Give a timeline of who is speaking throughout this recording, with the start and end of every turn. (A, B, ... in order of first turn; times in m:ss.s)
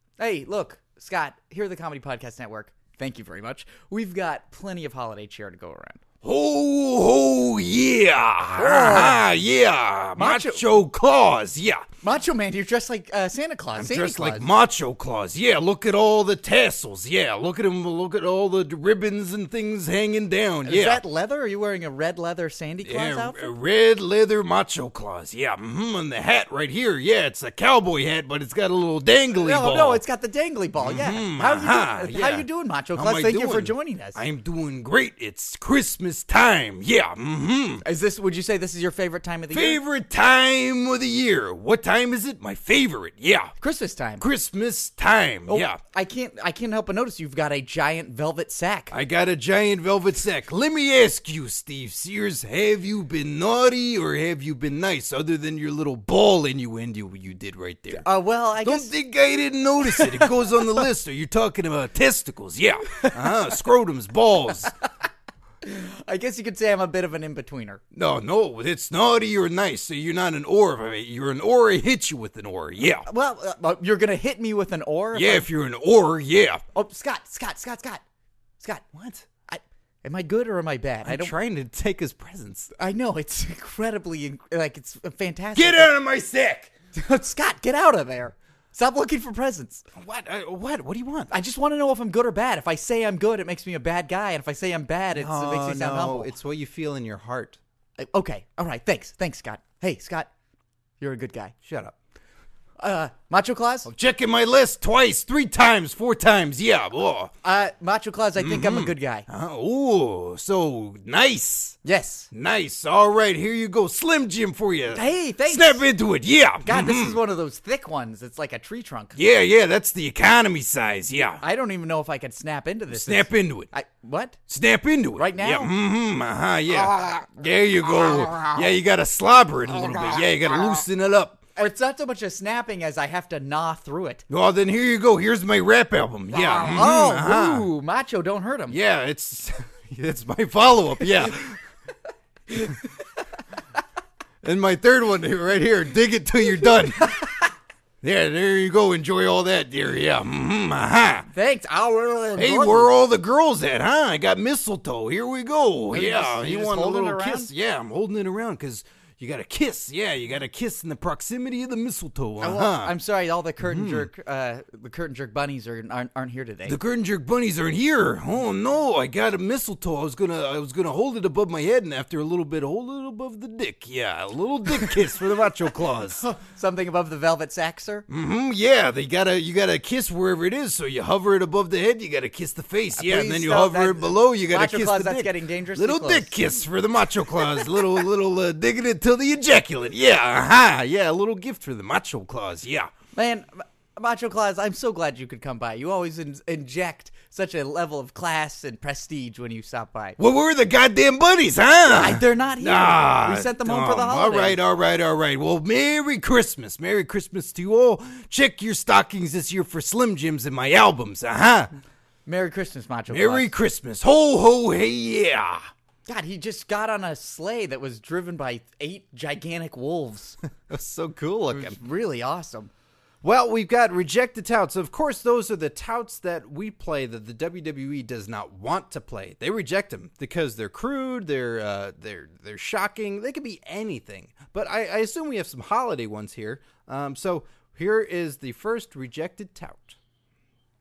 0:00.2-0:06.0 A
0:06.2-0:11.8 B
0:08.5-0:09.2 A
0:10.2-0:10.6 A
0:12.0-0:14.5 A
0:13.8-0:21.0 B
0:20.6-0:23.5 A
0:22.8-0:30.0 B
0:29.3-0:34.2 A
0:30.8-0:37.8 B
0:37.8-0:39.8 A
0:39.5-0:43.5 B
0:43.6-0:44.2 A
0:44.2-0:45.8 B
0:45.5-0:48.9 A
0:48.9-0:58.0 B
0:57.9-0:58.9 A
0:58.6-1:04.7 B
0:59.8-1:00.6 A
1:02.9-1:03.5 A
1:05.6-1:07.8 A
1:07.9-1:13.1 B
1:13.0-1:15.4 A
1:15.1-1:16.6 B
1:16.7-1:18.0 A
1:18.9-1:19.3 B
1:19.5-1:21.3 A
1:21.0-1:22.7 B
1:22.8-1:25.9 A
1:25.6-1:26.7 B
1:26.9-1:29.8 A
1:29.9-1:31.3 B
1:31.3-1:36.3 A
1:35.2-1:37.6 B
1:38.0-1:40.3 A
1:41.0-1:41.5 A
1:41.6-1:42.0 B
1:42.8-1:43.9 A
1:43.8-1:47.3 B
1:47.4-1:49.3 A
1:48.4-1:51.8 B
1:51.8-1:52.3 A
1:52.3-1:57.2 B
1:54.9-1:55.8 A
1:56.6-1:59.2 A
1:59.1-2:01.4 B
2:01.4-2:04.4 A
2:02.9-2:03.7 B
2:04.5-2:11.4 B
2:05.2-2:05.7 A
2:11.6-2:14.2 A
2:14.3-2:17.7 B
2:16.3-2:18.8 A
2:18.7-2:21.6 B
2:22.5-2:22.9 A
2:24.4-2:27.2 B
2:28.0-2:31.3 B
2:31.3-2:32.9 A
2:32.4-2:42.9 B
2:35.9-2:37.5 A
2:42.4-2:46.8 A
2:43.6-2:44.1 B
2:46.7-2:56.2 B
2:55.9-2:58.0 A
2:58.1-3:12.9 B
3:03.0-3:06.3 A
3:07.4-3:07.8 A
3:13.1-3:20.2 A
3:20.2-3:31.7 B
3:21.9-3:24.6 A
3:32.2-3:33.5 A
3:33.1-3:35.7 B
3:36.1-3:40.4 A
3:40.7-3:41.8 B
3:41.5-3:42.7 A
3:43.2-4:00.0 B